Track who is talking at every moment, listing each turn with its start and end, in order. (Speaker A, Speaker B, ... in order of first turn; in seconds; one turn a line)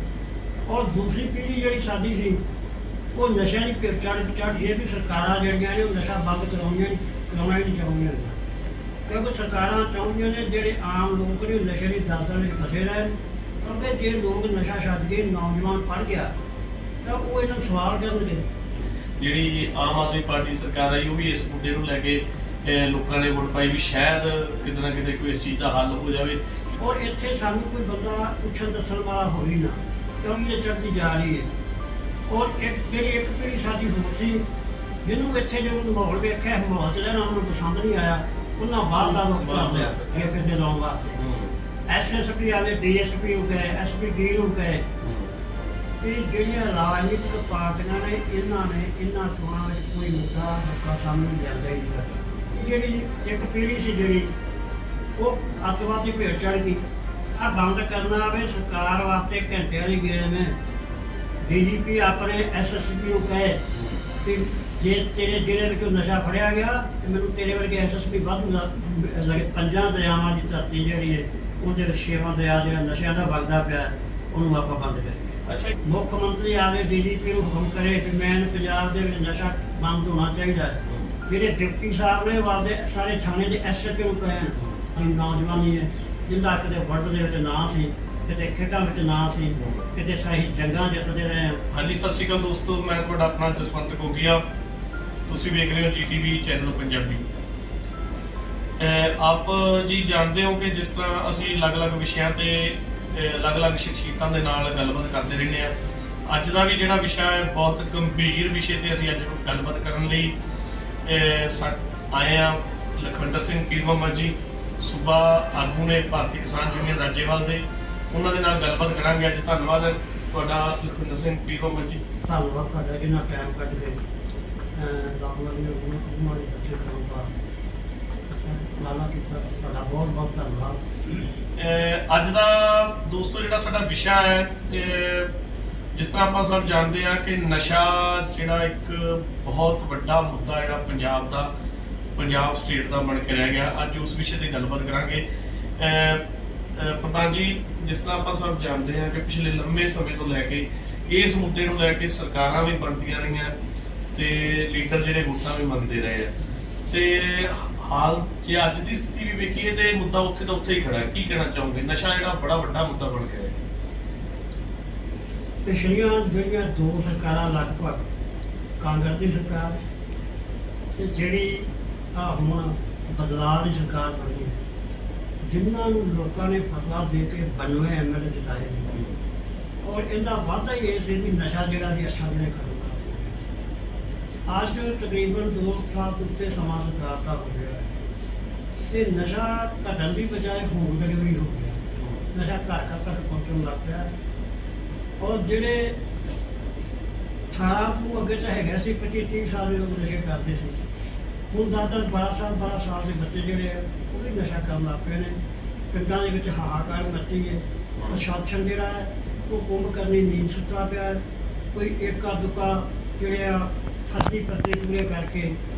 Speaker A: 0.7-2.4
Speaker A: 3.1-8.4
Speaker A: 9.1-16.3
Speaker A: 17.0-18.5
Speaker B: 19.2-26.8
Speaker A: 26.8-31.5
Speaker A: 32.3-34.4
Speaker A: 35.0-41.2
Speaker B: 38.9-40.3
Speaker B: 41.2-41.5
Speaker A: 41.9-44.9
Speaker B: 45.0-45.4
Speaker A: 46.0-54.3
Speaker A: 55.2-56.8
Speaker A: 57.4-60.6
Speaker A: 61.4-63.6
Speaker A: 64.2-75.3
Speaker B: 75.5-75.7
Speaker A: 75.8-91.6
Speaker B: 80.8-81.1
Speaker B: 89.6-89.8
Speaker B: 91.7-94.4
Speaker B: 95.3-97.3
Speaker B: 98.8-105.7
Speaker B: 106.2-110.3
Speaker B: 111.0-122.0
Speaker A: 122.2-124.0
Speaker A: 124.8-127.3
Speaker A: 128.3-130.8
Speaker B: 131.6-135.3
Speaker B: 135.9-141.5
Speaker B: 142.2-145.2
Speaker B: 145.8-153.5
Speaker B: 154.1-156.3
Speaker B: 156.9-163.5
Speaker A: 165.6-168.1
Speaker A: 168.8-169.8
Speaker A: 170.9-174.6
Speaker A: 175.4-179.0
Speaker A: 179.8-183.4
Speaker A: 184.5-188.0
Speaker A: 188.9-194.1
Speaker B: 192.0-192.2
Speaker A: 195.2-196.0
Speaker A: 197.5-200.8
Speaker A: 201.5-205.3
Speaker A: 205.9-211.2
Speaker A: 211.7-215.6